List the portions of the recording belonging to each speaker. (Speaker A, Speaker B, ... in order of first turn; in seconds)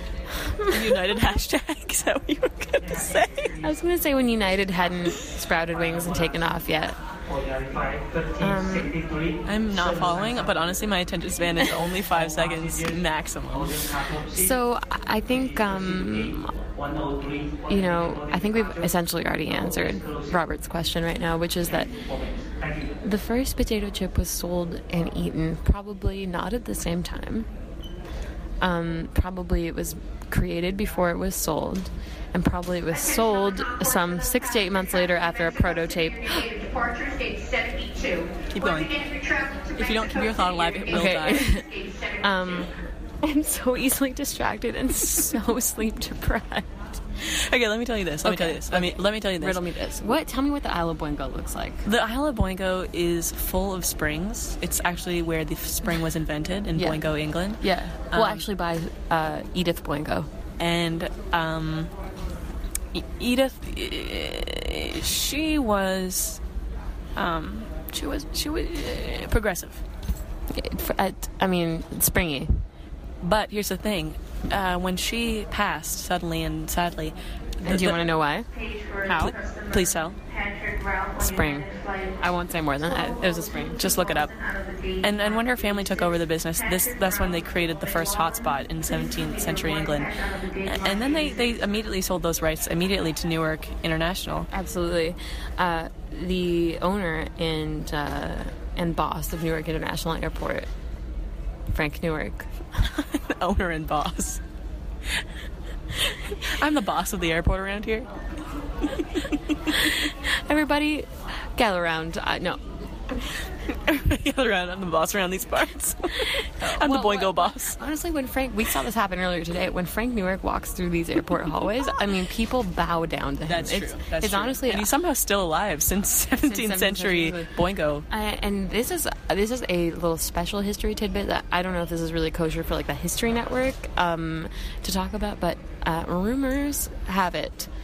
Speaker A: 0.3-1.0, 3.6-7.0, 8.4-9.0, 14.3-16.5, 17.7-21.9, 23.0-27.5, 28.6-36.5, 40.9-41.7, 42.2-47.0, 48.2-51.8, 56.8-57.1, 57.6-60.3, 70.5-72.5, 77.6-78.5, 79.0-79.3, 81.2-81.7, 82.2-83.8, 94.5-100.7, 101.7-102.5, 109.7-112.6, 116.2-124.9, 126.4-127.5, 128.1-137.7
Speaker B: 0.7-3.5, 9.4-13.8, 38.5-39.0, 39.7-41.6, 47.2-49.6, 51.8-58.4, 60.6-61.9, 62.9-66.4, 67.2-69.8, 73.2-78.0, 79.1-80.2, 83.8-84.3, 85.0-94.5, 102.8-104.4, 106.3-108.1, 113.7-117.8, 123.5-128.0